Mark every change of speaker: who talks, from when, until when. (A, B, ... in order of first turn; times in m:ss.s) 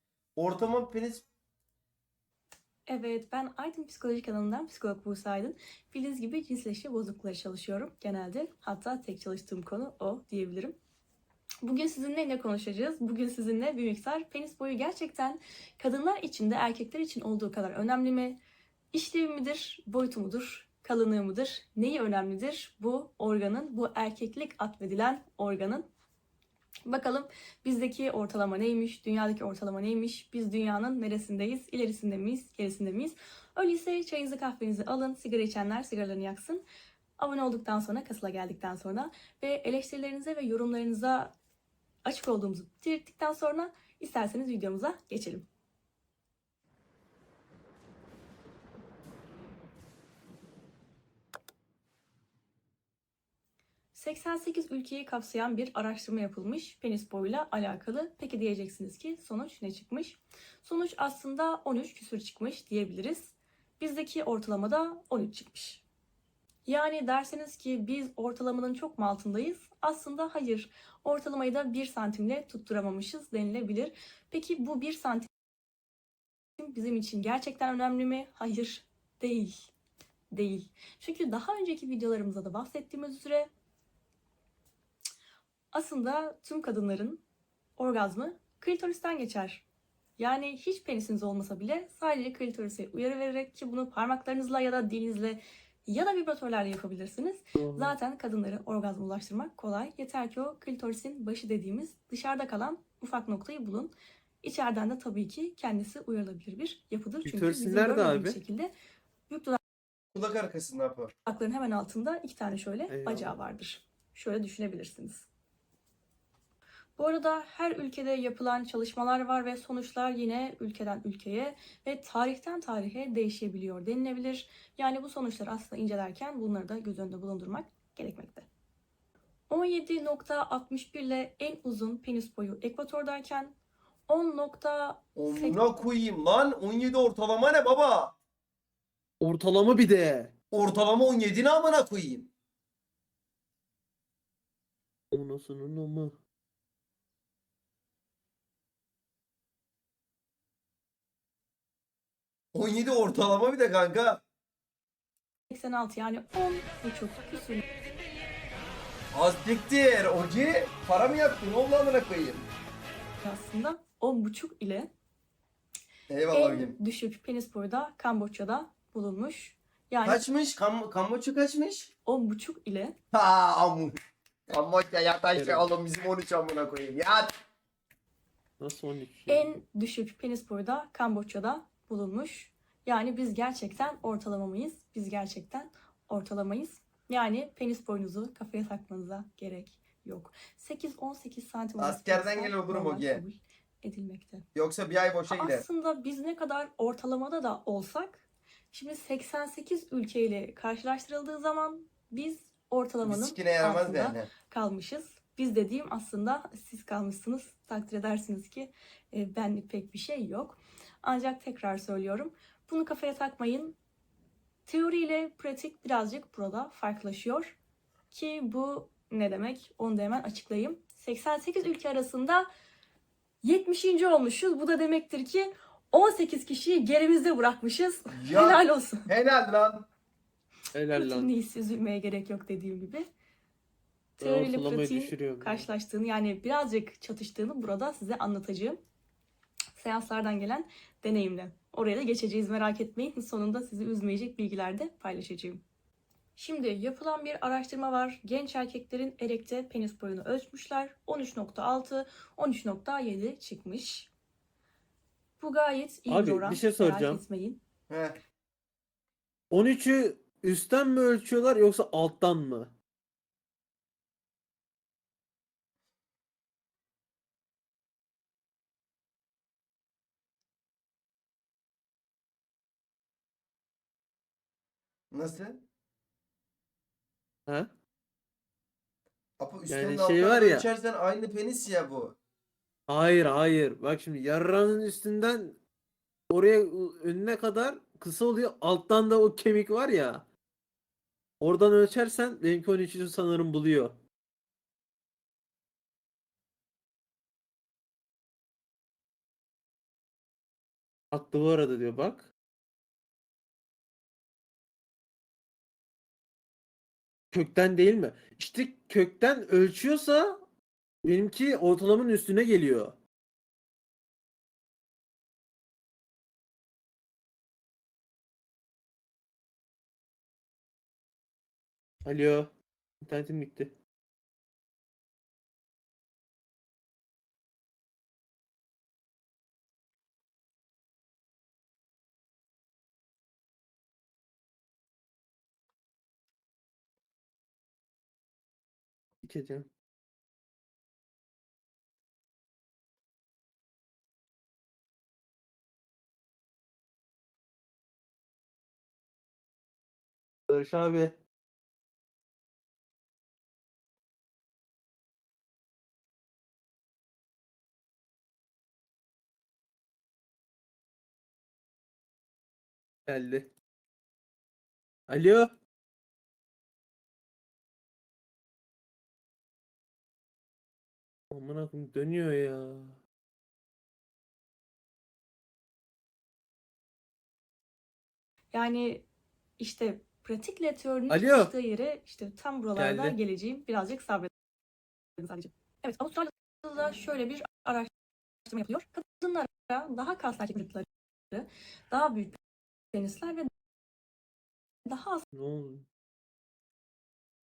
0:00.4-0:01.2 A
0:02.9-0:10.8 B
0:11.6-0:18.4 B
0:18.9-0:25.9 B
0:26.8-0:36.6 B
0:37.2-0:41.3 B
0:42.0-0:45.4 B
0:53.9-1:05.8 B
1:06.6-1:15.3 B
1:16.6-1:19.6 B
1:20.3-1:23.5 B
1:25.7-1:27.2 B
1:27.8-1:29.6 B
1:30.2-1:48.7 B
1:37.6-1:37.9 C
1:47.2-1:48.4 C
1:49.3-1:49.6 B
1:50.1-1:51.1 A
1:51.2-1:55.3 B
1:52.9-1:53.4 C
1:57.0-2:08.5 B
2:09.5-2:13.5 B
2:14.1-2:15.6 B
2:15.2-2:18.2 A
2:19.2-2:20.3 C
2:20.5-2:22.3 A
2:25.1-2:26.2 C
2:32.5-2:34.2 A
2:35.5-2:37.6 B
2:39.1-2:42.5 A
2:43.2-2:44.9 B
2:46.1-2:46.8 A
2:46.3-2:50.2 B
2:50.0-2:51.9 A
2:52.0-2:53.0 B
2:53.1-2:54.0 A
2:54.5-2:57.3 A
2:55.3-2:55.7 C
2:58.6-2:59.5 C
2:59.3-3:14.4 B
3:11.8-3:13.2 A
3:14.5-3:15.6 A
3:15.3-3:33.8 B
3:23.0-3:24.3 A
3:34.6-3:37.5 B
3:38.1-3:42.5 B
3:43.4-3:49.1 B
3:48.1-3:49.8 A
3:50.7-3:51.3 C
3:50.9-3:53.0 B
3:54.2-3:55.7 C
3:54.2-3:58.8 B
3:59.8-4:05.6 B
4:06.4-4:14.1 B
4:15.4-4:17.6 B
4:16.1-4:17.2 C
4:17.9-4:18.2 A
4:19.5-4:22.7 C
4:35.1-4:35.6 A
4:39.4-4:42.2 A
4:39.7-4:40.7 C
4:42.9-4:45.6 C
4:46.3-4:50.2 C
4:51.4-4:54.0 C
5:01.1-5:02.3 C
5:07.3-5:10.4 C
5:11.0-5:13.0 C
5:22.0-5:22.5 C
5:23.0-5:23.7 C
5:39.2-5:39.7 C
5:50.5-5:51.1 C
6:03.1-6:03.5 C
6:05.1-6:05.5 C
6:11.3-6:13.0 C
6:18.5-6:19.0 B
6:19.6-6:24.3 B
6:21.1-6:21.5 C
6:22.8-6:23.2 C
6:25.2-6:27.9 B
6:28.4-6:32.4 B
6:32.9-6:33.5 B
6:34.8-6:35.2 B
6:35.3-6:35.9 C